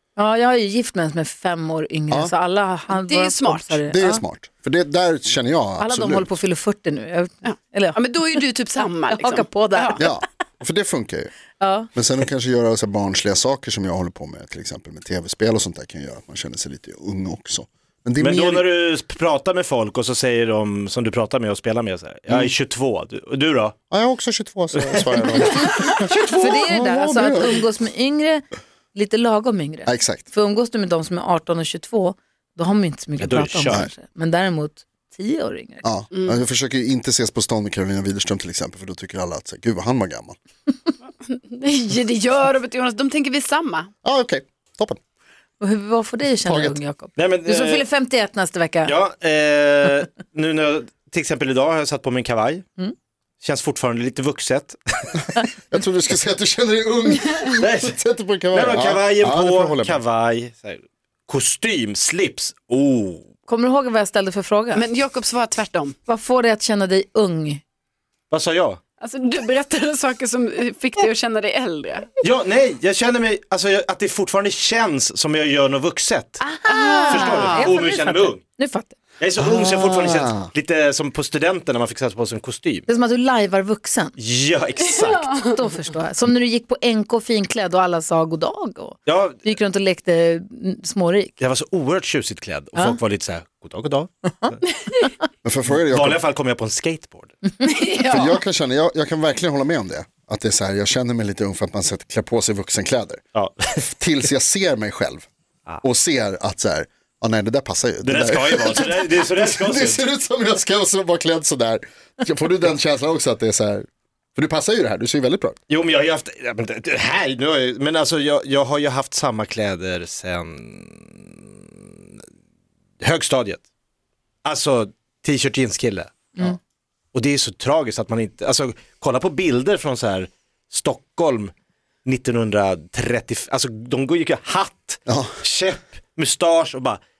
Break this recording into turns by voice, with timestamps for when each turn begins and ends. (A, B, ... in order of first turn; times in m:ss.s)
0:00.2-0:04.2 A
0:02.9-0:03.8 B
0:03.9-0:06.3 C
0:05.8-0:08.4 A
0:07.4-0:10.0 B
0:09.1-0:10.1 A
0:10.0-0:11.3 C
0:11.6-0:11.9 A
0:11.9-0:18.7 C
0:18.2-0:23.7 D
0:23.9-0:27.6 C
0:24.8-0:26.5 D
0:26.3-0:35.8 A
0:29.8-0:30.2 C
0:33.2-0:33.9 D
0:35.8-0:40.4 C
0:36.1-0:36.4 B
0:41.2-0:43.9 B
0:44.0-0:45.0 C
0:45.6-0:48.9 A
0:46.4-0:46.8 C
0:47.2-0:47.8 D
0:48.8-0:52.6 D
0:53.4-0:55.1 D
0:55.3-1:00.0 C
0:57.6-0:57.9 D
0:58.5-1:03.3 D
1:03.5-1:04.9 A
1:04.7-1:05.9 B
1:06.1-1:07.6 A
1:08.3-1:08.8 D
1:09.0-1:12.1 B
1:12.2-1:16.5 D
1:16.4-1:19.0 A
1:16.6-1:17.7 B
1:17.0-1:18.4 D
1:19.2-1:22.9 D
1:19.4-1:20.5 C
1:22.9-1:24.2 A
1:24.2-1:25.4 D
1:25.2-1:31.4 A
1:29.0-1:29.4 D
1:31.4-1:34.1 D
1:34.3-1:34.5 A
1:35.4-1:36.2 C
1:35.7-1:37.3 D
1:37.6-1:38.4 B
1:38.0-1:43.2 C
1:43.3-1:43.8 D
1:43.8-1:45.2 C
1:45.8-1:55.6 C
1:48.0-1:50.0 D
1:55.7-2:01.4 D
2:03.0-2:03.6 D
2:04.4-2:06.1 D
2:07.1-2:11.5 D
2:12.0-2:17.0 D
2:15.1-2:15.3 C